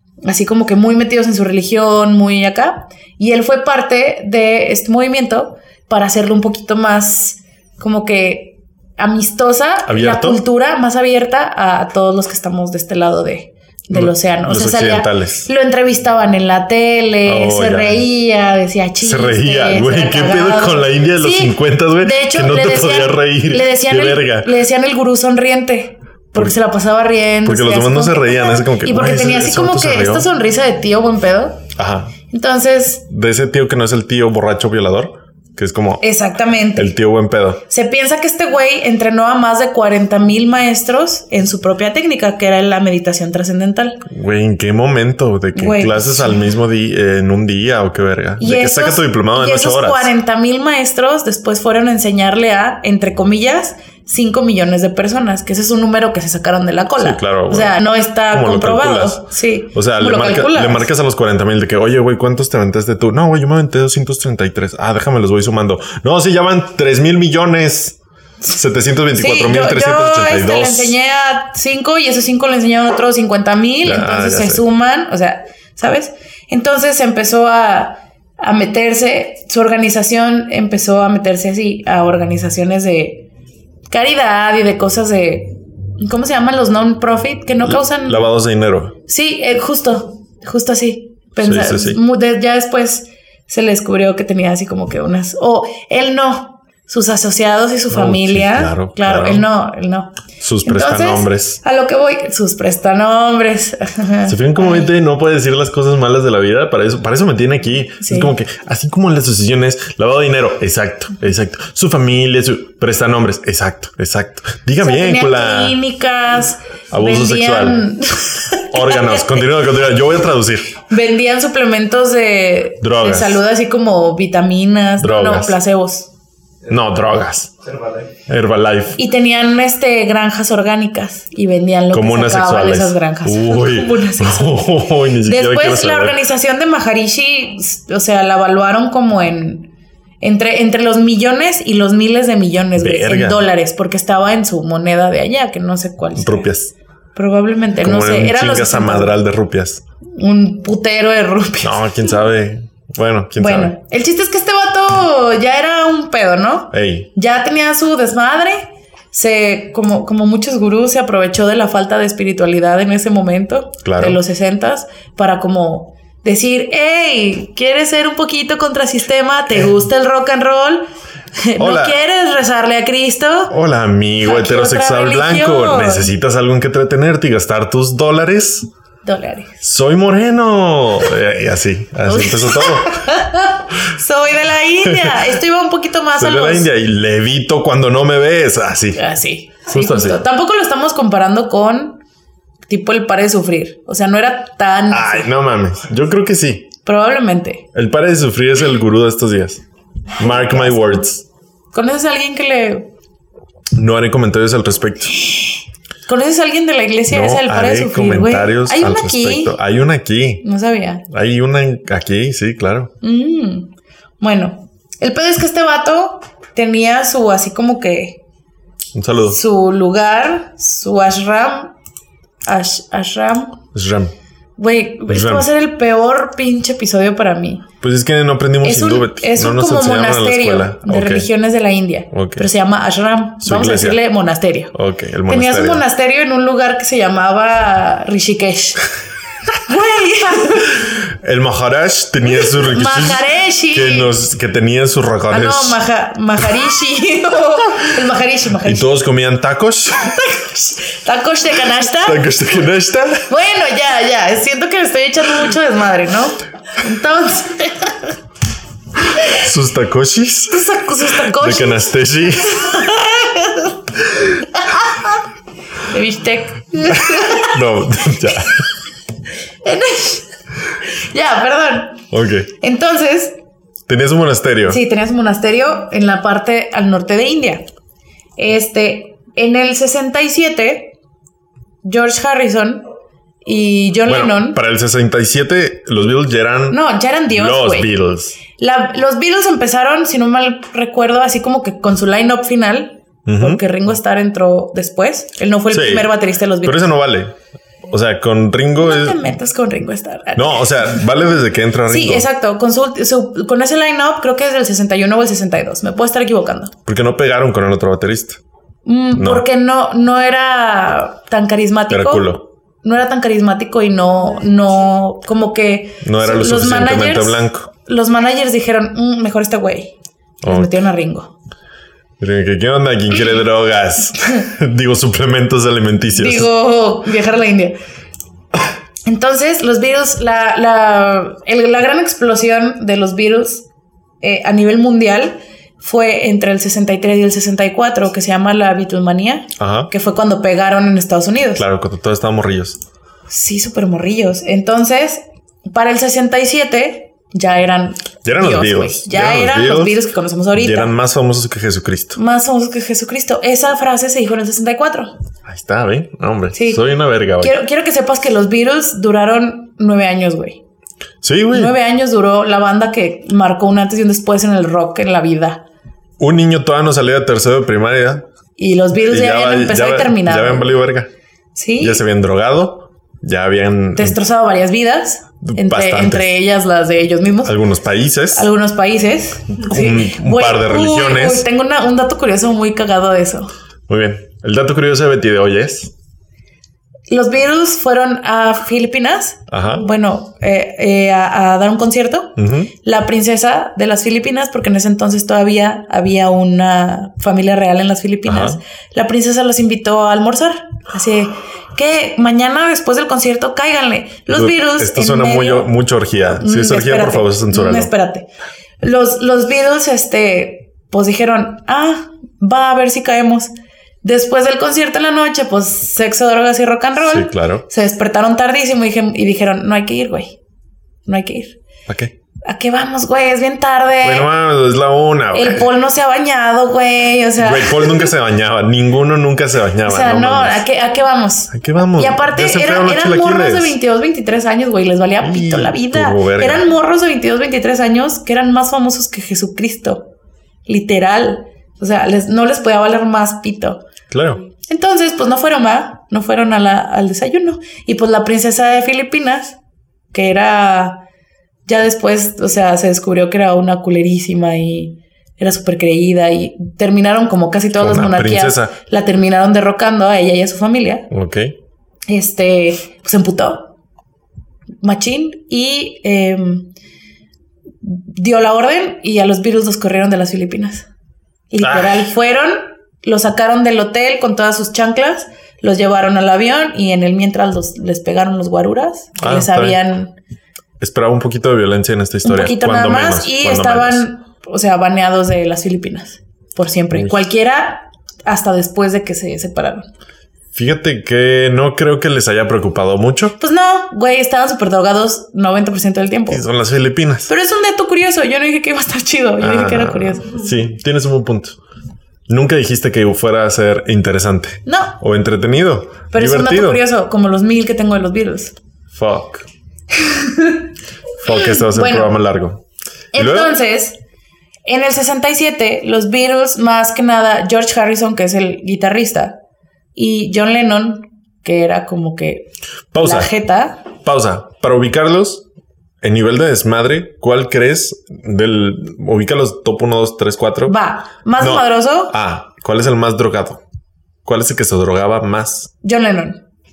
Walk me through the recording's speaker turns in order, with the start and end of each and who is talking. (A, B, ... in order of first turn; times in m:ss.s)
0:00.2-0:31.6 A
0:09.9-0:10.4 B
0:13.9-0:15.5 B
0:17.2-0:18.0 B
0:19.0-0:24.5 B
0:27.4-0:30.3 B
0:31.8-0:32.2 B
0:32.3-0:33.1 A
0:33.1-0:36.0 B
0:36.0-0:36.9 A
0:36.8-0:37.6 B
0:37.7-0:44.0 A
0:44.0-0:50.1 B
0:45.6-0:46.5 A
0:48.4-1:00.9 A
0:57.0-0:57.8 B
0:58.3-1:10.9 B
1:09.1-1:23.3 A
1:13.8-1:14.6 B
1:23.9-1:28.2 A
1:27.7-1:29.0 B
1:29.1-1:44.9 A
1:31.4-1:32.0 B
1:37.9-1:39.5 B
1:40.4-1:41.6 B
1:44.3-1:55.8 B
1:48.0-1:48.3 A
1:54.8-1:59.4 A
1:56.9-1:57.9 B
1:58.7-2:00.8 B
2:00.9-2:06.1 A
2:02.8-2:03.4 B
2:05.0-2:05.6 B
2:06.7-2:07.6 B
2:08.3-2:09.0 B
2:09.0-2:19.7 A
2:11.9-2:16.2 B
2:20.2-2:26.5 A
2:22.8-2:23.4 B
2:26.2-2:26.7 B
2:27.2-2:29.2 A
2:27.8-2:29.8 B
2:30.2-2:31.8 A
2:31.6-2:33.7 B
2:33.4-2:50.9 A
2:36.7-2:37.1 B
2:43.8-2:44.2 B
2:51.4-2:53.5 A
2:51.6-2:52.0 B
2:53.5-2:58.7 B
2:54.2-2:56.1 A
2:59.0-2:59.6 A
2:59.6-3:03.1 B
3:02.1-3:06.7 A
3:04.9-3:05.3 B
3:06.2-3:09.1 B
3:09.0-3:12.0 A
3:09.7-3:10.2 B
3:12.7-3:15.3 A
3:14.9-3:16.7 B
3:16.8-3:17.6 A
3:17.7-3:19.6 B
3:20.2-3:21.0 A
3:20.2-3:21.2 B
3:21.7-3:22.9 A
3:23.8-3:25.2 B
3:26.1-3:29.6 A
3:27.1-3:30.4 B
3:30.4-3:31.0 A
3:31.1-3:32.9 B
3:33.0-3:38.2 A
3:38.9-3:39.4 B
3:39.3-3:41.7 A
3:42.5-3:43.6 A
3:43.7-3:44.1 B
3:44.6-3:47.7 A
3:45.1-3:45.5 B
3:47.8-3:51.3 B
3:48.6-3:54.7 A
3:52.1-3:52.5 B
3:53.4-3:54.0 B
3:54.7-3:55.8 B
3:55.3-3:58.9 A
3:59.6-4:00.8 A
4:00.9-4:05.8 B
4:02.3-4:04.1 A
4:05.3-4:08.9 A
4:08.6-4:10.2 B
4:10.0-4:12.3 A
4:12.0-4:13.3 B
4:13.3-4:18.2 A
4:19.3-4:22.8 B
4:20.5-4:21.9 A
4:22.5-4:25.2 A
4:25.9-4:27.6 A
4:26.9-4:28.7 B
4:29.6-4:30.3 A
4:30.8-4:32.0 A
4:32.1-4:32.5 B
4:32.5-4:33.4 A
4:33.9-4:34.8 B
4:34.7-4:37.6 A
4:38.4-4:41.0 A
4:41.8-4:42.9 A
4:43.4-4:44.6 A
4:44.1-4:46.8 B
4:46.7-4:47.9 A
4:47.3-4:48.4 B
4:48.5-4:56.9 A
4:53.3-4:53.6 B
4:55.7-4:56.1 B
4:56.6-4:57.4 B
4:57.9-4:59.2 B
4:58.8-5:01.1 A
5:00.4-5:02.3 B
5:01.9-5:06.7 A
5:06.9-5:08.4 B
5:08.8-5:19.9 A
5:09.2-5:09.4 B
5:11.9-5:12.4 B
5:16.0-5:17.7 B
5:20.4-5:20.7 B
5:20.4-5:21.3 A
5:22.2-5:26.5 B
5:26.2-5:27.8 A
5:29.1-5:33.7 A
5:34.2-5:41.6 A
5:39.6-5:39.9 B
5:41.6-5:42.8 B
5:43.3-5:50.9 A
5:48.2-5:50.0 B
5:50.5-5:52.2 B
5:52.2-5:55.1 A
5:55.5-5:57.6 B
5:56.6-5:56.9 A
5:57.4-6:00.6 A
6:01.2-6:01.8 B
6:01.5-6:05.6 A
6:06.2-6:08.3 B
6:08.6-6:10.8 A
6:08.9-6:11.1 B
6:11.6-6:12.0 A
6:11.8-6:14.2 B
6:14.0-6:17.6 A
6:15.4-6:16.3 B
6:17.4-6:18.5 B
6:18.3-6:23.5 A
6:19.6-6:21.4 B
6:23.9-6:25.9 B
6:27.1-6:45.8 A
6:29.5-6:29.8 B
6:32.4-6:32.7 B
6:38.3-6:38.6 B
6:44.3-6:47.9 B
6:46.4-6:48.3 A
6:48.8-6:53.5 A
6:54.0-7:00.4 A
6:57.0-6:57.6 B
7:01.1-7:01.6 A
7:01.9-7:02.1 B
7:02.4-7:04.3 A
7:04.0-7:05.7 B
7:05.3-7:08.1 A
7:07.4-7:10.6 B
7:09.8-7:20.1 A
7:11.5-7:13.8 B
7:15.2-7:16.7 B
7:20.7-7:23.8 A
7:24.1-7:24.4 B
7:24.6-7:29.6 A
7:30.1-7:31.0 A
7:31.7-7:41.1 A
7:37.8-7:38.8 B
7:41.1-7:41.5 B
7:42.1-7:43.7 A
7:44.8-7:46.7 A
7:47.8-7:50.9 A
7:51.5-8:00.2 A
7:51.6-7:52.0 B
7:59.2-7:59.8 B
8:00.8-8:04.1 B
8:02.2-8:09.9 A
8:10.5-8:13.4 B
8:13.4-8:16.4 A
8:16.3-8:17.3 B
8:17.3-8:20.4 A
8:19.4-8:21.6 B
8:22.3-8:26.8 B
8:24.7-8:25.0 A
8:26.1-8:28.6 A
8:28.9-8:29.5 B
8:29.9-8:30.7 A
8:31.2-8:32.6 B
8:31.3-8:32.1 A
8:33.1-8:34.0 A
8:33.2-8:33.5 B
8:34.6-8:39.4 A
8:40.0-8:43.9 A
8:42.9-8:43.3 B
8:44.0-8:45.5 B
8:46.0-8:50.8 B
8:50.6-8:52.2 A
8:51.4-8:53.6 B
8:54.2-8:55.7 B
8:55.8-8:56.4 A